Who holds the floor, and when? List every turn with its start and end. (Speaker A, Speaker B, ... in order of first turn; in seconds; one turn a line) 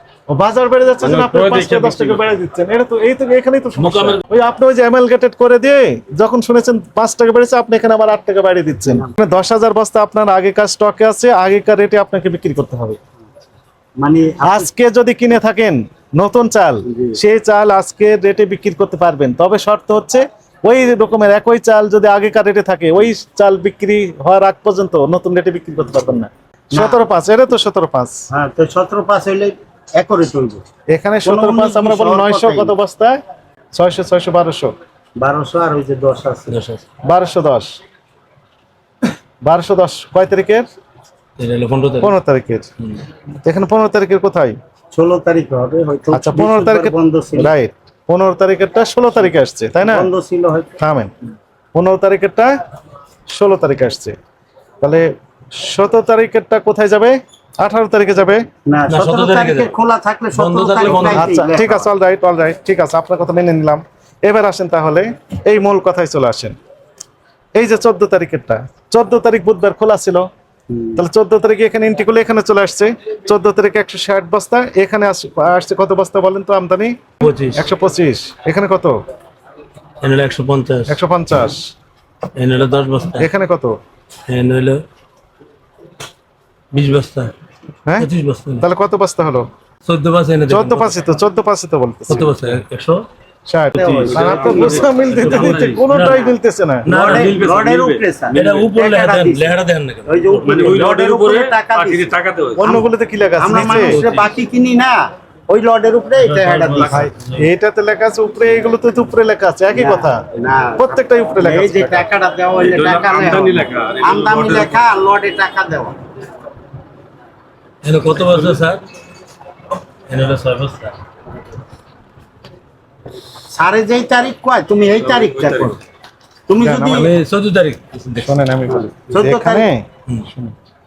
Speaker A: 0.3-13.0
Speaker B: 1.0-2.3
Speaker C: 3.8-4.2
Speaker D: 8.9-9.1
Speaker D: 14.0-14.7
Speaker A: 14.4-28.2
Speaker D: 16.9-17.2
Speaker D: 26.7-27.0
Speaker D: 28.3-30.6
Speaker A: 30.9-33.2
Speaker D: 31.2-32.8
Speaker A: 33.7-34.7
Speaker D: 35.2-36.5
Speaker C: 36.5-36.8
Speaker A: 37.0-37.8
Speaker A: 39.4-40.7
Speaker C: 41.4-42.1
Speaker A: 42.0-42.7
Speaker A: 43.5-44.6
Speaker D: 44.9-47.5
Speaker A: 46.1-50.1
Speaker D: 49.8-50.7
Speaker A: 50.8-51.1
Speaker A: 51.8-52.5
Speaker A: 53.3-54.2
Speaker A: 54.8-58.4
Speaker D: 58.7-61.9
Speaker C: 58.9-59.7
Speaker C: 60.3-61.3
Speaker A: 60.9-66.6
Speaker A: 67.5-70.3
Speaker D: 70.7-71.0
Speaker A: 71.0-79.0
Speaker C: 77.2-77.7
Speaker C: 80.0-81.0
Speaker A: 80.9-81.7
Speaker C: 82.4-83.3
Speaker A: 83.2-83.8
Speaker C: 84.3-84.8
Speaker C: 86.7-87.3
Speaker C: 88.0-88.7
Speaker A: 88.6-89.5
Speaker C: 89.8-91.0
Speaker A: 90.5-92.5
Speaker C: 92.1-93.0
Speaker A: 93.5-96.9
Speaker B: 93.8-95.8
Speaker D: 93.8-94.9
Speaker C: 94.1-96.3
Speaker C: 96.8-97.7
Speaker B: 96.9-98.6
Speaker D: 96.9-102.1
Speaker C: 98.3-100.8
Speaker B: 100.5-102.8
Speaker A: 102.6-104.0
Speaker D: 103.4-107.1
Speaker C: 103.5-104.3
Speaker C: 106.2-107.5
Speaker A: 106.8-110.2
Speaker D: 109.7-116.0
Speaker A: 110.8-112.1
Speaker B: 112.6-114.9
Speaker C: 117.8-118.8
Speaker B: 118.4-118.6
Speaker C: 120.1-121.0
Speaker D: 123.5-125.8
Speaker B: 125.0-125.8
Speaker D: 126.5-127.1
Speaker A: 126.6-127.1
Speaker C: 126.9-128.4
Speaker A: 128.2-130.5
Speaker D: 128.7-129.7